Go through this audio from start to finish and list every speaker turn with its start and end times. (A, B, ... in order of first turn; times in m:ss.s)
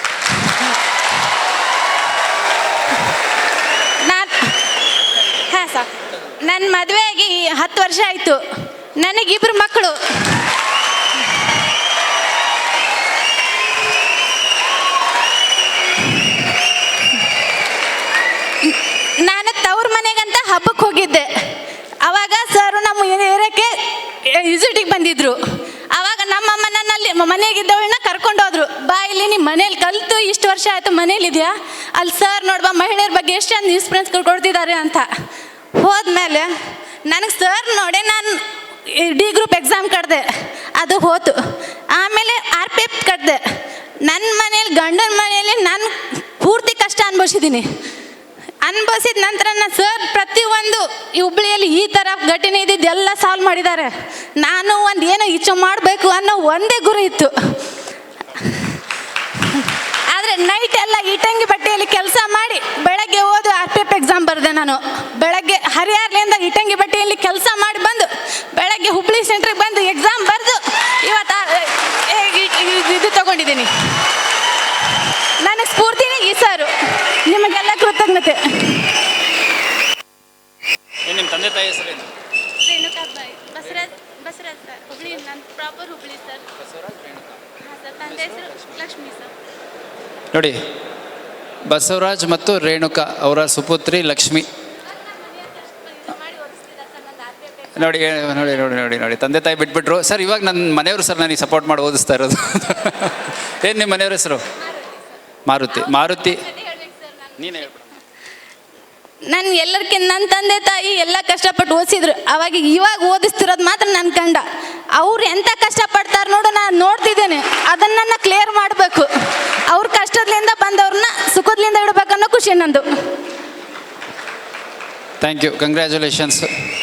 0:04.0-0:04.6 A
0:05.5-0:08.4 A
0:09.0-0:10.5 A
0:18.6-0:35.1 A
0:35.8-0:41.4 A
0:41.9-0:43.4 A
0:44.0-0:47.7 A
0:48.6-0:57.5 A
0:58.4-0:58.8 A
0:59.4-1:13.9 A
1:15.4-1:18.9 A
1:21.0-1:22.1 B
1:22.6-1:26.4 A
1:26.7-1:27.3 B
1:27.6-1:29.3 A
1:28.3-1:28.6 B
1:30.3-1:30.6 B
1:31.7-1:34.5 B
1:35.1-1:37.7 A
1:37.8-1:44.4 B
1:45.5-1:46.6 B
1:46.6-1:47.1 A
1:47.4-1:47.8 B
1:49.3-1:59.1 A
1:59.7-2:02.9 A
2:05.2-2:06.5 B